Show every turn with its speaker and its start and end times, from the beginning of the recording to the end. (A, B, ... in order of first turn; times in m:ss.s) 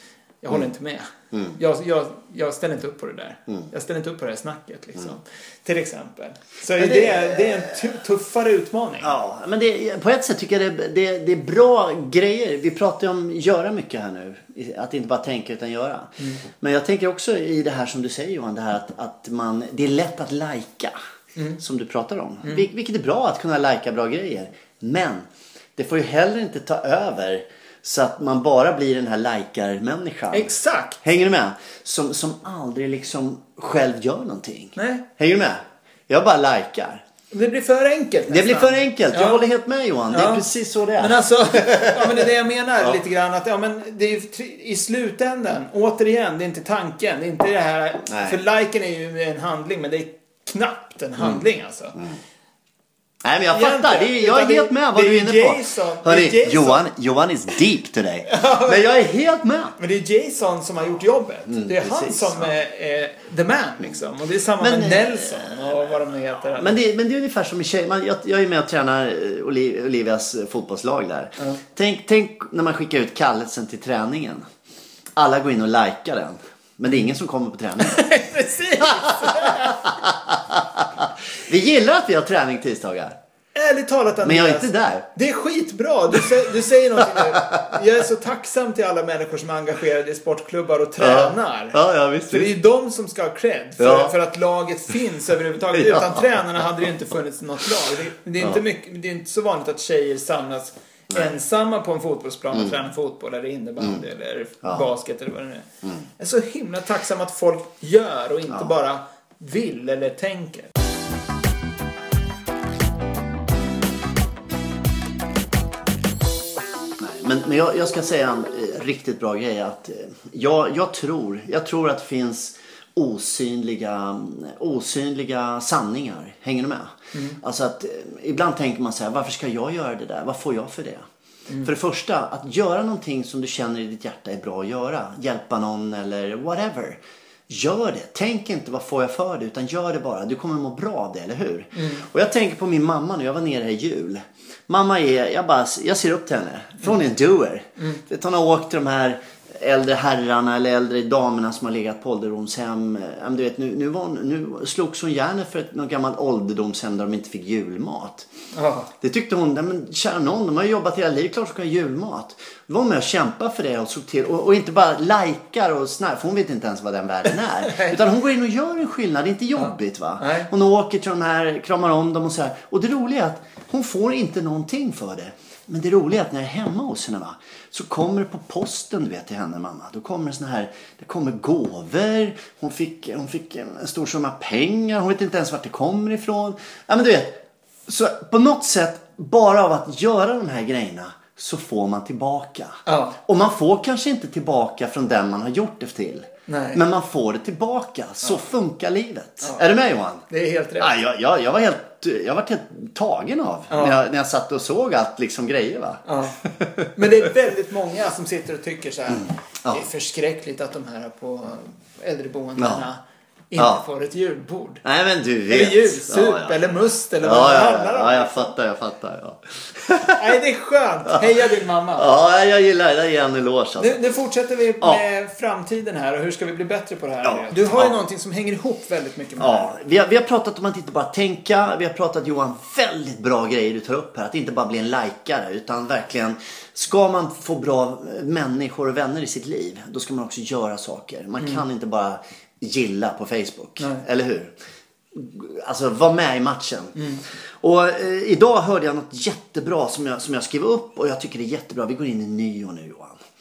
0:00.4-0:09.1 A
0:01.3-0:01.6 B
0:06.8-0:07.8 B
0:09.0-0:20.9 B
0:21.6-0:30.5 B
0:30.3-0:31.0 A
0:31.0-0:37.0 B
0:34.8-0:35.0 A
0:37.3-0:39.4 A
0:38.3-0:42.3 B
0:40.1-0:52.0 A
0:48.0-0:48.4 B
0:51.2-0:51.4 B
0:53.2-0:59.8 B
0:53.5-0:56.9 A
0:58.3-0:58.8 A
0:59.8-1:06.8 A
1:01.5-1:02.5 B
1:04.6-1:05.9 B
1:06.5-1:14.4 B
1:15.2-1:18.0 B
1:17.8-1:19.9 A
1:19.1-1:23.2 B
1:23.5-1:31.8 A
1:24.2-1:25.1 B
1:27.1-1:27.8 B
1:31.0-1:32.5 B
1:32.3-1:45.6 A
1:33.8-1:34.1 B
1:35.7-1:36.5 B
1:42.5-1:42.8 B
1:44.6-1:44.9 B
1:46.2-1:50.7 A
1:48.5-1:48.7 B
1:57.0-2:11.0 B
2:07.1-2:07.4 A
2:11.6-2:38.3 B
2:21.8-2:22.0 A
2:38.5-2:38.9 A
2:39.0-3:20.2 B
2:47.6-2:48.0 A
2:49.6-2:50.5 A
3:12.8-3:13.2 A
3:16.5-3:16.8 A
3:20.3-3:20.9 A
3:20.8-3:26.9 B
3:23.7-3:24.0 A
3:26.0-3:26.4 A
3:27.0-3:33.0 A
3:29.2-3:29.8 B
3:32.6-3:32.9 B
3:33.5-3:34.8 A
3:33.6-3:33.8 B
3:34.8-3:40.3 B
3:35.5-3:38.5 A
3:40.2-3:42.1 A
3:42.0-3:44.0 B
3:43.8-3:49.7 A
3:47.2-3:48.0 B
3:49.4-4:04.5 B
4:03.8-4:04.0 A
4:05.1-4:13.2 B
4:07.0-4:07.2 A